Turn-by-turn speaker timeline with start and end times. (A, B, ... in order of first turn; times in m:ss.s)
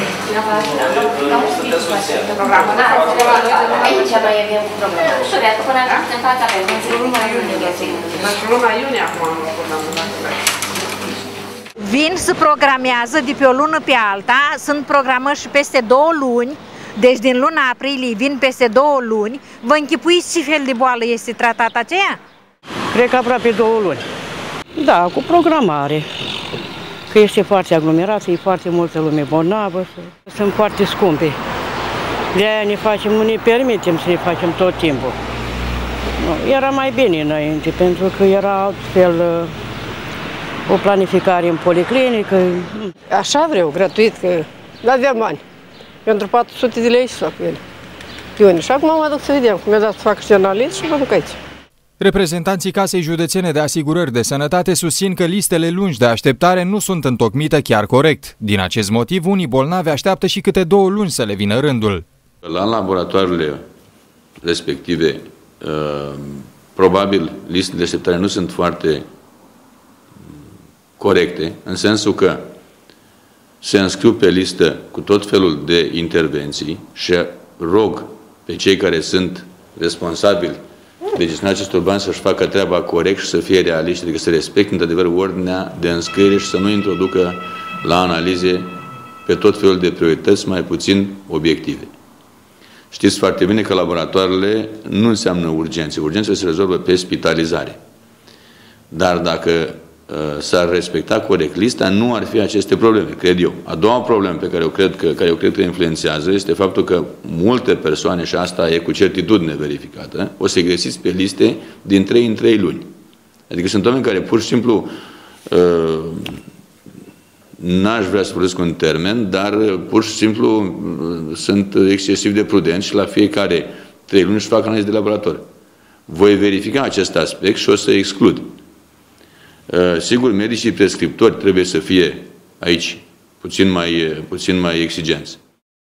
0:00.3-0:01.6 A
0:00.3-0:08.4 B
0:02.3-0:04.8 A
0:05.6-0:06.0 A
0:06.9-0:10.4 A
0:11.8-0:22.2 C
0:22.9-0:24.0 D
0:24.8-0:26.0 D
0:27.1-0:31.4 D
0:32.3-0:35.2 D
0:36.2-0:39.5 D
0:40.7-0:42.9 D
0:43.1-0:45.4 E
0:46.0-0:47.6 E
0:48.4-0:51.4 E
0:52.0-1:02.0 F
1:02.4-1:03.6 G
1:04.4-1:09.0 G
1:11.0-1:12.4 G
1:13.6-1:20.6 G
1:21.1-1:28.7 G
1:29.3-1:31.9 G
1:32.9-1:37.8 G
1:38.9-1:52.9 G
1:53.5-1:54.9 G
1:55.5-1:56.4 G
1:57.6-2:05.4 G
2:06.1-2:08.5 G
2:09.7-2:15.4 G